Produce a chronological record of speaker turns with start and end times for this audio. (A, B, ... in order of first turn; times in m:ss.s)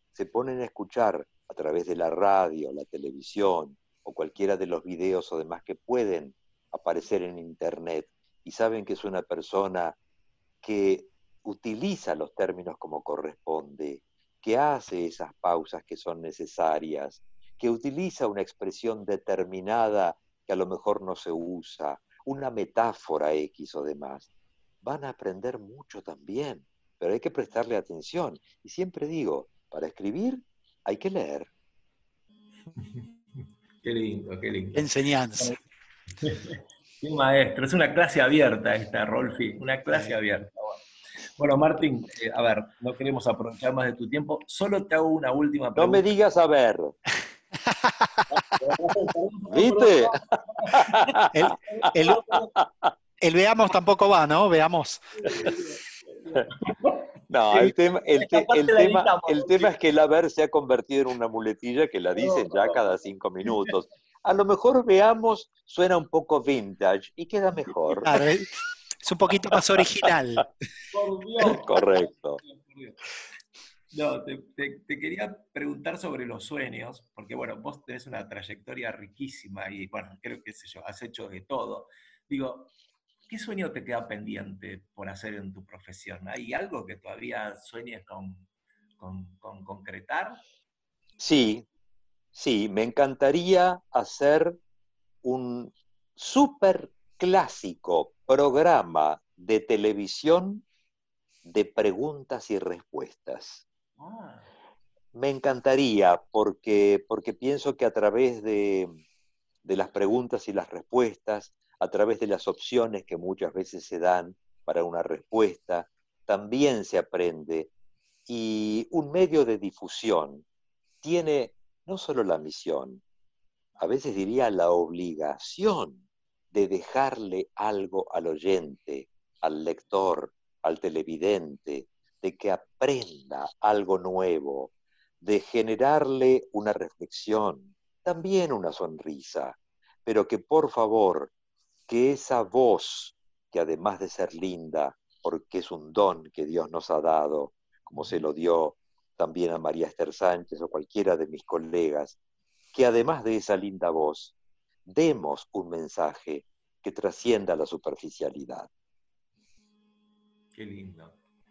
0:00.1-0:10.0 A
0:10.6-0:24.3 A
0:24.8-0:31.5 A
0:32.8-0:35.6 B
0:34.7-0:35.6 C
0:36.2-0:40.8 B
0:41.4-0:46.0 B
0:45.8-0:46.9 A
0:47.7-0:48.2 C
0:48.4-0:51.1 B
0:49.5-0:51.5 A
0:51.3-0:52.3 C
0:51.7-0:52.5 B
0:52.3-0:52.9 A
0:53.2-0:55.2 C
0:55.2-0:59.8 B
0:57.3-1:08.1 A
1:02.2-1:02.9 B
1:03.4-1:03.7 B
1:08.0-1:10.5 C
1:10.9-1:13.0 B
1:11.4-1:12.4 A
1:13.9-1:22.7 B
1:23.3-1:28.5 B
1:29.0-1:30.4 B
1:31.2-1:31.6 A
1:32.3-1:34.6 A
1:35.2-1:40.6 A
1:41.4-1:43.6 A
1:44.0-1:44.5 B
1:45.1-1:49.0 A
1:49.6-1:57.7 A
1:58.3-2:00.4 A
2:01.0-2:03.0 A
2:03.8-2:21.3 A
2:21.9-2:32.2 A
2:32.7-2:38.7 A
2:40.5-2:41.2 B